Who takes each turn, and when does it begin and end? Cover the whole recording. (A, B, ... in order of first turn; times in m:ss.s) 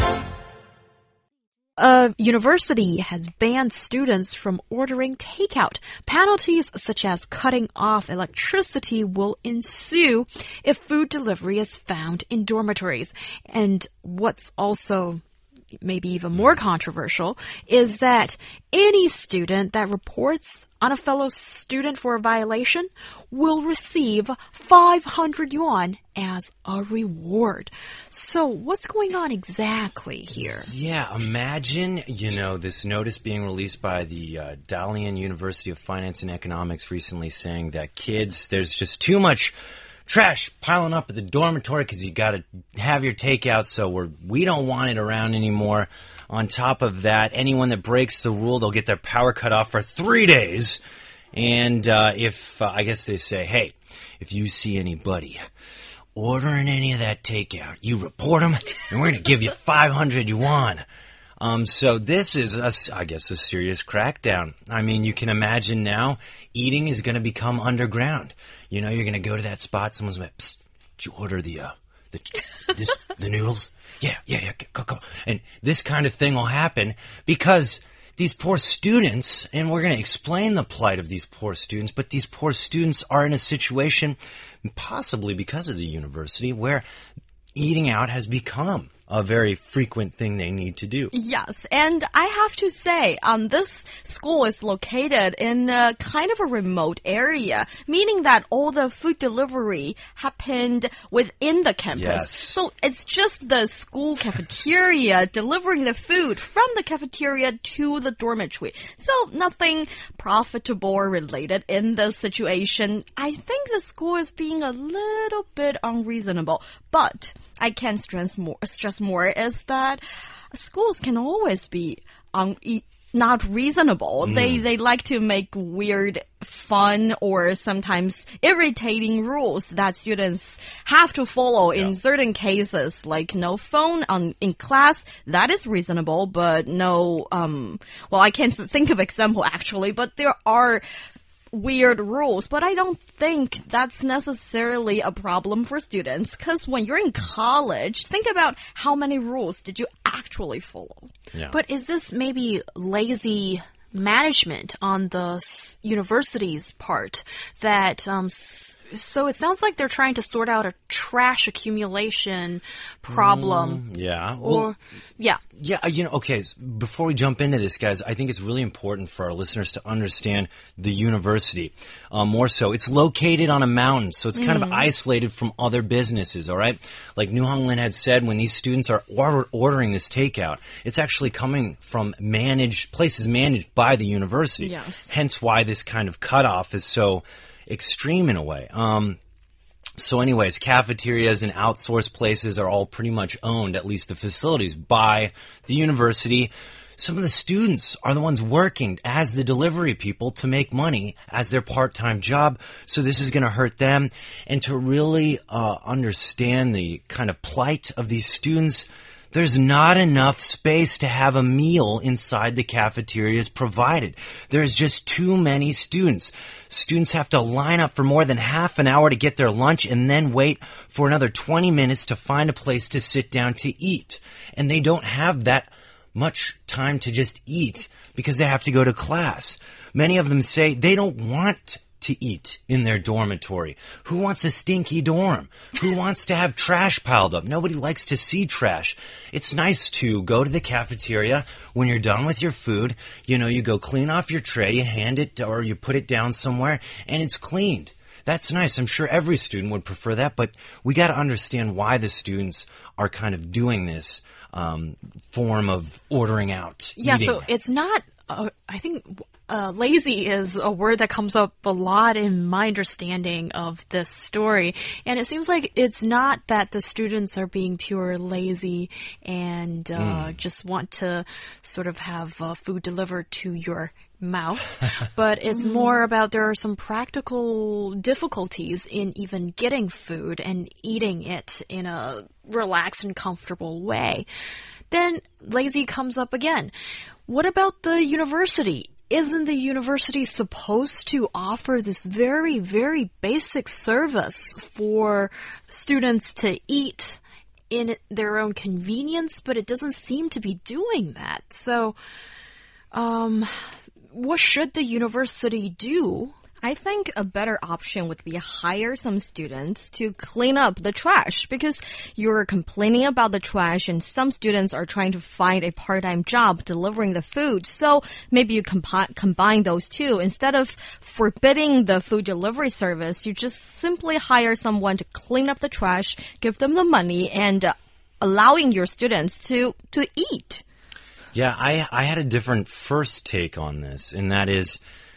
0:01.8-0:15.2 A
0:15.8-0:30.7 A
0:30.7-0:39.5 B
0:40.0-0:50.8 B
0:51.3-0:55.4 B
0:56.2-1:00.8 B
1:01.4-1:26.8 B
1:27.5-1:31.1 B
1:31.1-2:00.0 C
1:41.9-1:42.6 B
2:00.5-2:20.8 C
2:04.2-2:04.7 B
2:21.5-2:31.1 C
2:31.5-2:43.8 A
2:43.1-2:44.7 B
2:44.4-2:45.4 A
2:45.6-3:09.2 B
2:54.3-2:54.9 C
3:04.6-3:05.1 C
3:10.0-4:17.5 B
4:17.0-4:44.3 A
4:30.0-4:30.4 B
4:35.5-4:35.9 C
4:44.9-4:46.7 A
4:47.3-4:57.2 A
4:57.7-5:02.0 A
5:02.9-5:03.5 A
5:04.1-5:06.3 A
5:06.6-5:30.6 C
5:31.3-5:34.8 B